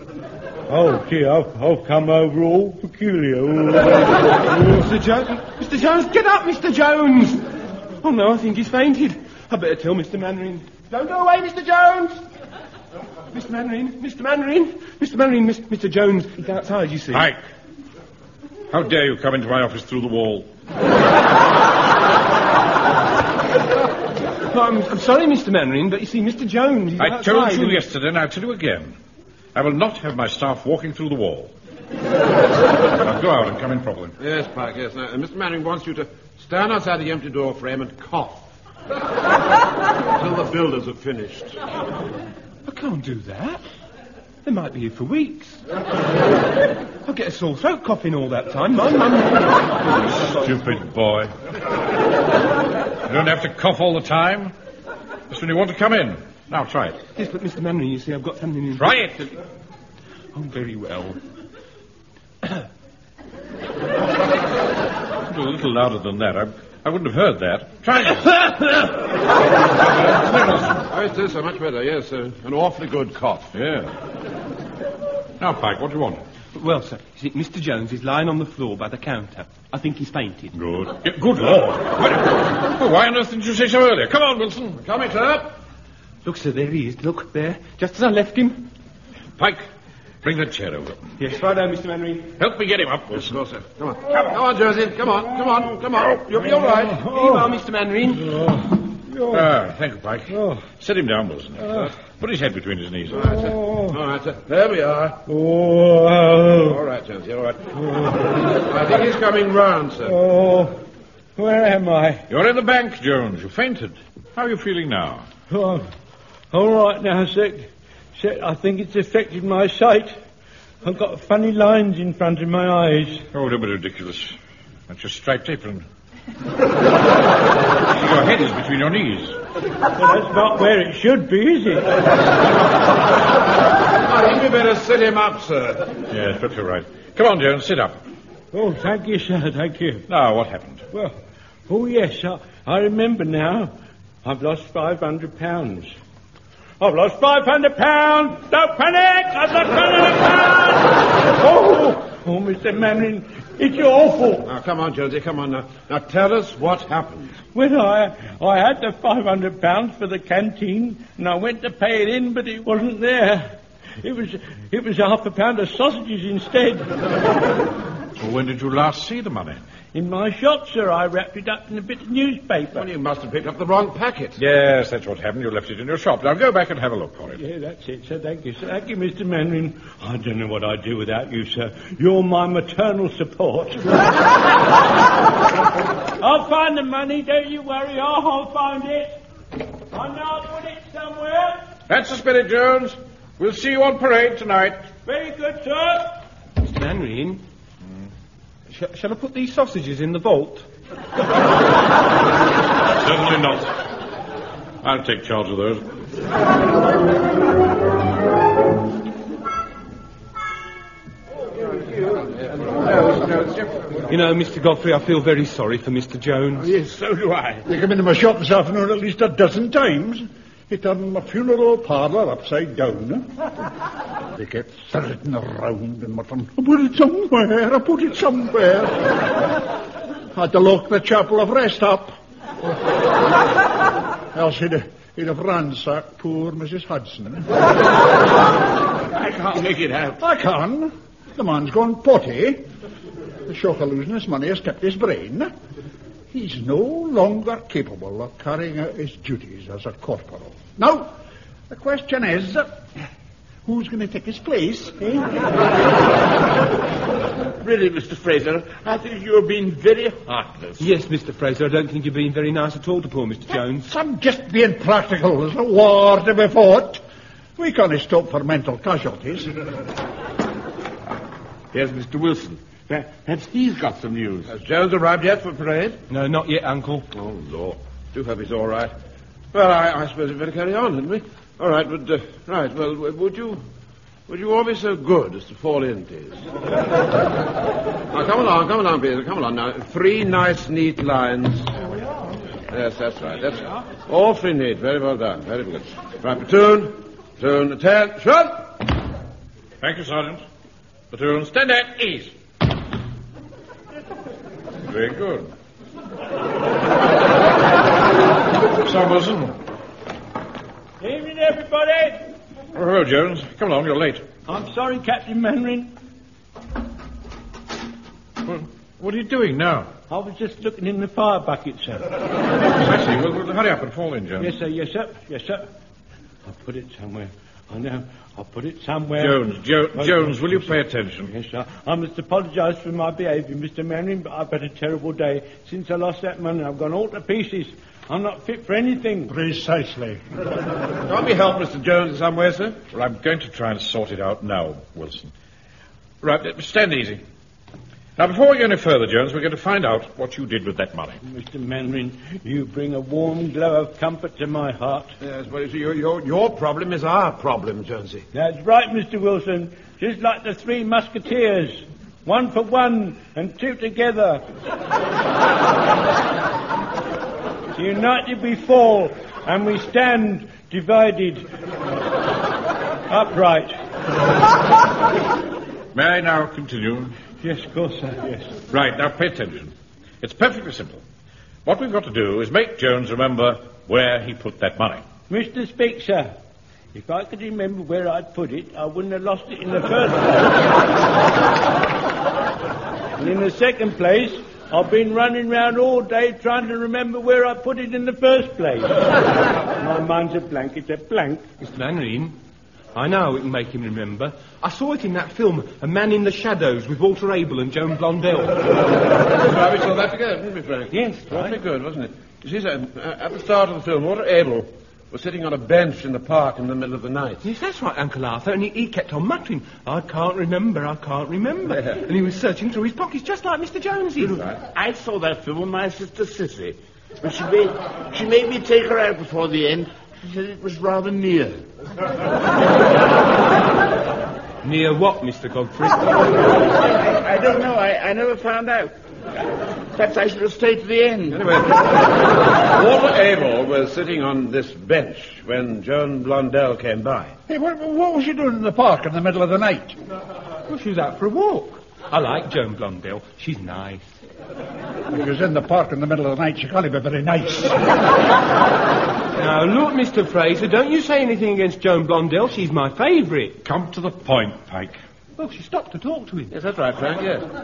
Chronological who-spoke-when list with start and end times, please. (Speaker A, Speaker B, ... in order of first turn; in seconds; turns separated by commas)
Speaker A: 0.7-4.0, Speaker B: 4.5-12.2, Speaker B: 13.3-17.3, Speaker C: 17.1-17.4, Speaker C: 18.7-20.5, Speaker B: 24.5-27.9, Speaker C: 27.0-28.9, Speaker C: 29.6-31.5, Speaker C: 33.0-34.1, Speaker D: 34.2-38.5, Speaker D: 40.1-41.6, Speaker B: 42.7-43.6, Speaker B: 44.4-45.6, Speaker B: 47.0-50.0, Speaker C: 50.1-51.3, Speaker C: 53.1-54.5, Speaker C: 55.3-57.0, Speaker B: 57.2-59.0, Speaker C: 58.8-59.3, Speaker B: 60.3-61.2, Speaker C: 65.2-68.9, Speaker C: 69.8-70.9, Speaker D: 70.9-73.5, Speaker C: 73.5-73.9, Speaker C: 75.4-76.2, Speaker B: 76.5-80.5, Speaker C: 80.5-84.8, Speaker D: 84.8-85.6, Speaker B: 86.2-88.6, Speaker C: 89.4-89.7, Speaker C: 90.2-91.1, Speaker B: 91.2-92.3, Speaker C: 92.4-93.3, Speaker D: 93.1-97.0, Speaker A: 96.4-97.5, Speaker B: 97.0-98.3, Speaker A: 99.1-99.5, Speaker C: 99.3-103.3, Speaker A: 100.3-100.6, Speaker D: 103.1-105.2, Speaker A: 103.5-103.9, Speaker A: 105.2-106.8, Speaker D: 106.6-107.7, Speaker A: 107.8-108.2, Speaker D: 108.5-110.2, Speaker A: 110.0-110.8, Speaker A: 111.4-112.2, Speaker C: 112.3-115.2, Speaker A: 115.5-115.9, Speaker A: 116.5-120.2, Speaker A: 120.8-123.2, Speaker C: 123.3-124.4, Speaker C: 124.9-125.9, Speaker C: 127.9-129.4, Speaker A: 129.9-131.9, Speaker D: 134.0-135.9, Speaker C: 136.1-138.0, Speaker A: 138.5-140.1, Speaker C: 140.1-140.8, Speaker A: 141.7-143.7, Speaker A: 144.2-145.9, Speaker A: 146.8-154.5, Speaker D: 154.4-157.4, Speaker A: 157.5-166.9, Speaker C: 168.2-169.6, Speaker A: 169.9-172.9, Speaker D: 172.7-174.4, Speaker C: 174.4-177.4, Speaker A: 177.4-184.0, Speaker A: 186.2-189.2, Speaker A: 189.9-191.6, Speaker C: 191.9-194.8, Speaker A: 195.1-196.1, Speaker B: 196.6-197.4, Speaker B: 198.7-200.7, Speaker C: 203.0-203.7, Speaker C: 204.8-205.8, Speaker E: 212.9-213.7, Speaker B: 214.1-216.7, Speaker E: 216.6-217.7, Speaker F: 217.7-223.3, Speaker F: 224.3-229.1, Speaker F: 230.3-232.1, Speaker F: 234.3-237.5, Speaker E: 239.1-240.2, Speaker F: 240.2-242.6, Speaker F: 243.4-245.5, Speaker F: 246.3-251.1, Speaker F: 251.7-252.8, Speaker F: 253.7-255.2, Speaker E: 257.6-260.9, Speaker B: 260.8-263.9, Speaker F: 263.8-267.0, Speaker F: 267.6-269.5, Speaker E: 271.7-274.5, Speaker D: 274.5-276.0, Speaker B: 276.1-277.1, Speaker D: 277.1-278.9, Speaker D: 279.5-283.6, Speaker D: 284.3-286.4, Speaker D: 288.1-291.8, Speaker D: 292.7-298.7, Speaker C: 299.8-300.4, Speaker C: 301.1-302.3, Speaker C: 304.9-305.5, Speaker C: 308.8-309.6, Speaker A: 311.0-312.2, Speaker C: 312.7-314.2, Speaker A: 314.5-315.9, Speaker C: 318.4-319.9, Speaker A: 320.1-322.1, Speaker C: 322.8-324.6, Speaker A: 324.4-325.7, Speaker A: 326.4-339.3, Speaker C: 329.2-331.3, Speaker F: 339.3-340.2, Speaker D: 341.1-342.8, Speaker C: 342.9-345.3, Speaker C: 346.2-347.2, Speaker C: 348.2-351.2, Speaker A: 351.2-355.1, Speaker D: 355.2-358.3, Speaker A: 358.3-364.4, Speaker A: 367.8-371.4, Speaker A: 373.1-373.7, Speaker C: 375.9-377.1, Speaker A: 377.4-378.6, Speaker C: 378.7-381.0, Speaker C: 381.6-385.0, Speaker A: 385.3-386.3, Speaker A: 386.9-390.6, Speaker A: 393.2-399.1, Speaker A: 399.8-401.4, Speaker B: 401.6-402.4, Speaker B: 402.9-408.7, Speaker D: 409.4-417.5, Speaker B: 410.9-411.6, Speaker B: 417.4-424.4, Speaker E: 424.2-431.6, Speaker B: 434.6-436.3, Speaker E: 436.8-438.9, Speaker E: 439.9-441.5, Speaker D: 441.3-442.1, Speaker D: 442.6-447.3, Speaker F: 447.5-449.9, Speaker B: 450.7-454.1, Speaker F: 455.1-457.8, Speaker B: 459.4-463.6, Speaker C: 463.6-465.0, Speaker B: 465.4-466.5, Speaker D: 466.5-467.5